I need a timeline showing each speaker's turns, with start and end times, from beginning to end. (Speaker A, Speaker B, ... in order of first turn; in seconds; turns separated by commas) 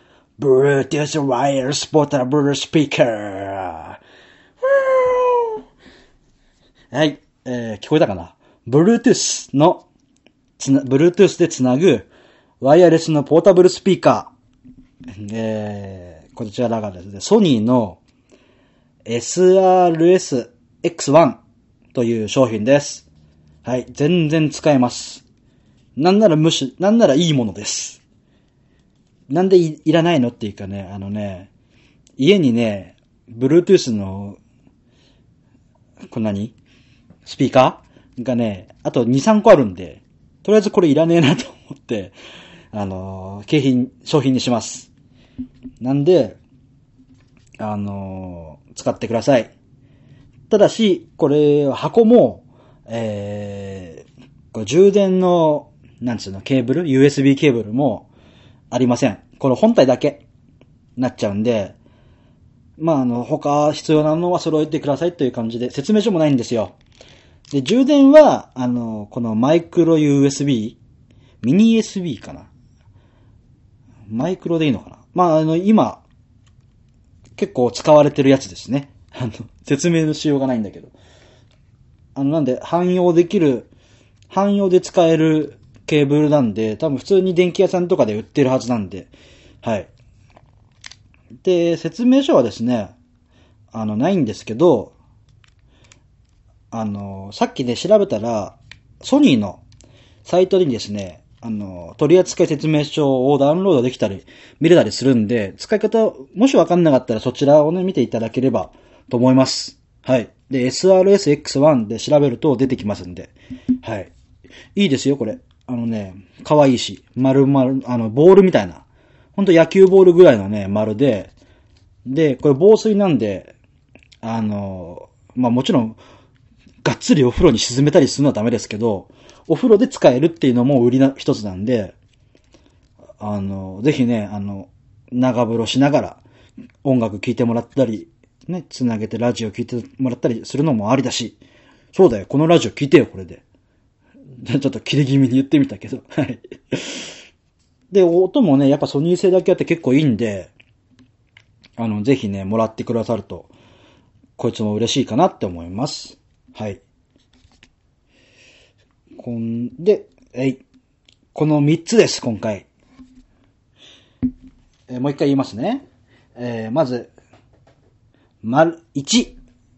Speaker A: 0.4-4.0, Speaker A: 4.6-5.6, Speaker A: 6.9-9.8, Speaker A: 10.6-12.1, Speaker A: 12.6-14.3, Speaker A: 15.2-18.0, Speaker A: 19.1-21.4, Speaker A: 21.9-23.1, Speaker A: 23.6-25.2, Speaker A: 26.0-28.0, Speaker A: 29.3-31.5, Speaker A: 32.2-34.4, Speaker A: 36.0-36.5, Speaker A: 37.2-42.1, Speaker A: 42.7-44.9, Speaker A: 45.8-46.4, Speaker A: 47.6-49.5, Speaker A: 50.5-58.1, Speaker A: 58.7-60.2, Speaker A: 61.0-61.8, Speaker A: 62.8-66.8, Speaker A: 67.5-70.8, Speaker A: 71.4-72.5, Speaker A: 74.1-76.0, Speaker A: 77.4-80.9, Speaker A: 82.2-83.7, Speaker A: 84.3-89.1, Speaker A: 89.6-89.9, Speaker A: 91.4-93.0, Speaker A: 93.7-94.9, Speaker A: 96.7-99.6, Speaker A: 100.2-114.1, Speaker A: 114.8-118.8, Speaker A: 119.4-121.3, Speaker A: 122.1-123.5, Speaker A: 124.2-126.0, Speaker A: 126.8-131.9, Speaker A: 133.2-136.2, Speaker A: 136.8-141.4, Speaker A: 141.9-143.4, Speaker A: 144.4-147.1, Speaker A: 147.9-150.5, Speaker A: 151.8-153.5, Speaker A: 154.4-156.8, Speaker A: 159.2-160.6, Speaker A: 161.3-162.7, Speaker A: 164.9-165.8, Speaker A: 166.4-167.1, Speaker A: 168.4-169.4